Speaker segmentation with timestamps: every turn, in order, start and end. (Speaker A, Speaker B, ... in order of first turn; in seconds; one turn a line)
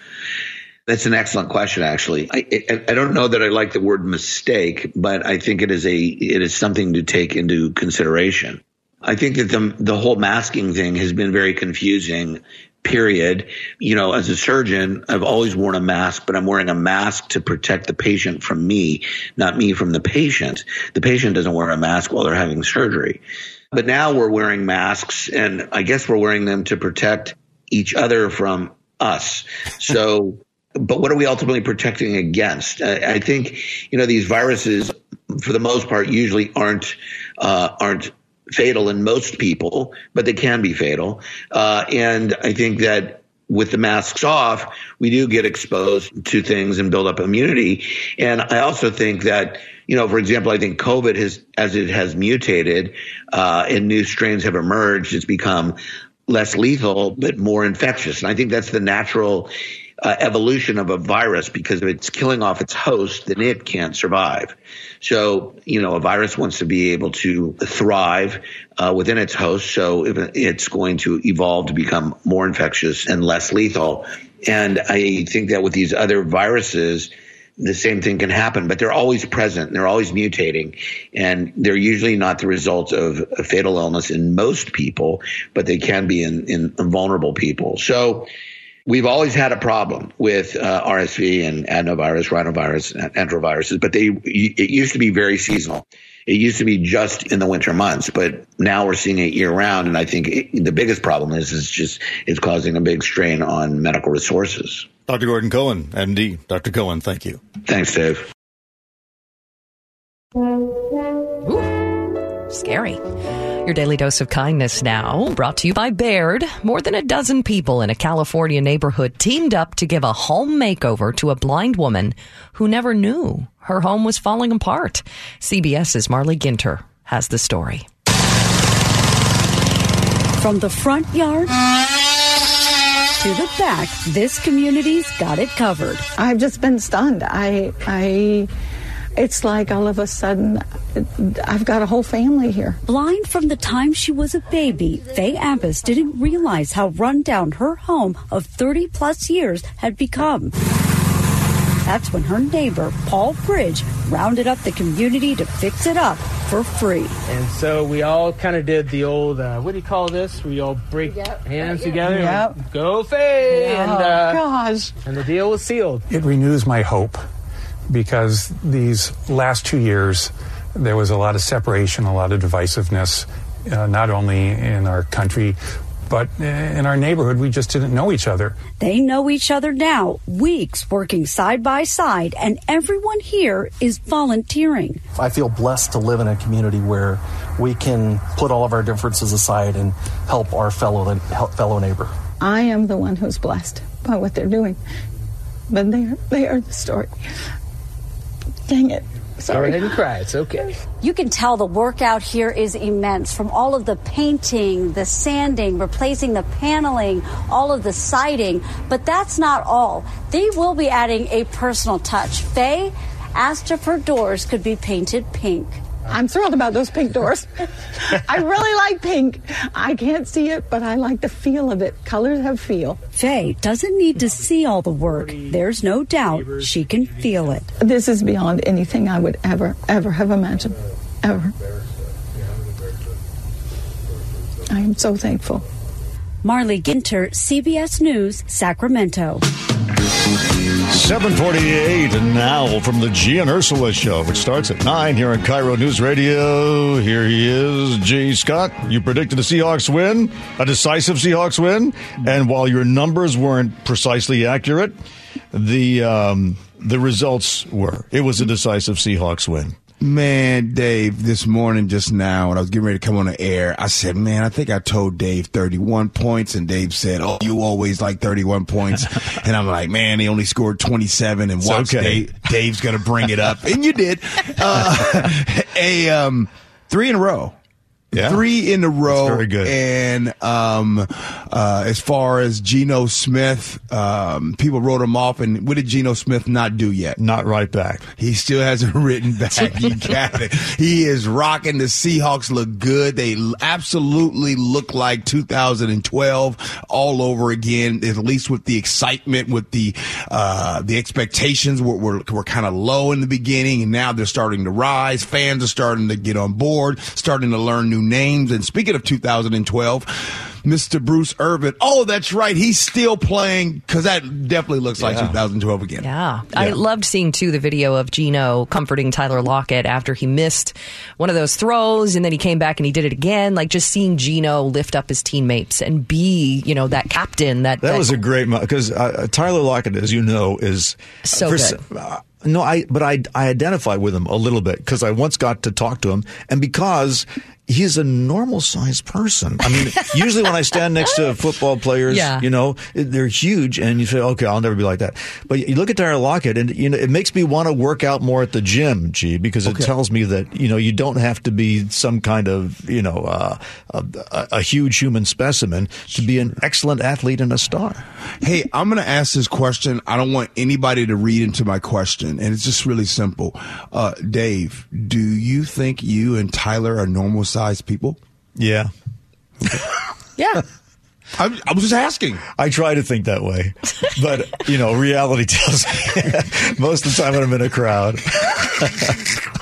Speaker A: 0.9-23.2
Speaker A: 23.7-88.3
Speaker A: 88.8-104.9
Speaker B: 105.1-107.4
Speaker A: 107.6-108.3
Speaker C: 112.5-113.0
Speaker C: 113.6-127.8
Speaker D: 130.4-131.6
Speaker D: 133.2-136.1
Speaker E: 136.2-138.5
Speaker E: 139.1-142.8
Speaker D: 142.8-150.6
Speaker D: 151.8-157.2
Speaker F: 157.3-164.0
Speaker E: 162.1-162.6
Speaker E: 163.5-164.9
Speaker F: 165.0-166.0
Speaker G: 166.1-167.2
Speaker G: 167.9-175.6
Speaker G: 176.1-178.6
Speaker D: 178.8-185.0
Speaker H: 185.2-192.1
Speaker E: 192.4-194.8
Speaker E: 195.7-197.2
Speaker E: 198.7-200.0
Speaker F: 199.6-200.6
Speaker D: 201.0-215.8
Speaker E: 216.1-223.0
Speaker D: 223.1-227.7
Speaker E: 227.8-231.5
Speaker E: 234.7-235.7
Speaker D: 236.4-239.4
Speaker B: 240.9-254.9
Speaker B: 255.5-259.8
Speaker I: 260.0-277.5
Speaker B: 271.6-272.3
Speaker B: 278.1-278.4
Speaker I: 278.1-287.2
Speaker B: 279.1-279.7
Speaker B: 287.2-288.0
Speaker I: 288.2-310.1
Speaker I: 310.6-316.1
Speaker B: 315.0-315.4
Speaker C: 316.0-328.2
Speaker B: 327.8-358.0
Speaker C: 331.3-331.8
Speaker C: 342.1-342.4
Speaker I: 349.6-349.9
Speaker I: 358.4-368.2
Speaker B: 368.6-368.9
Speaker C: 370.4-370.6
Speaker I: 371.4-372.4
Speaker B: 372.6-379.2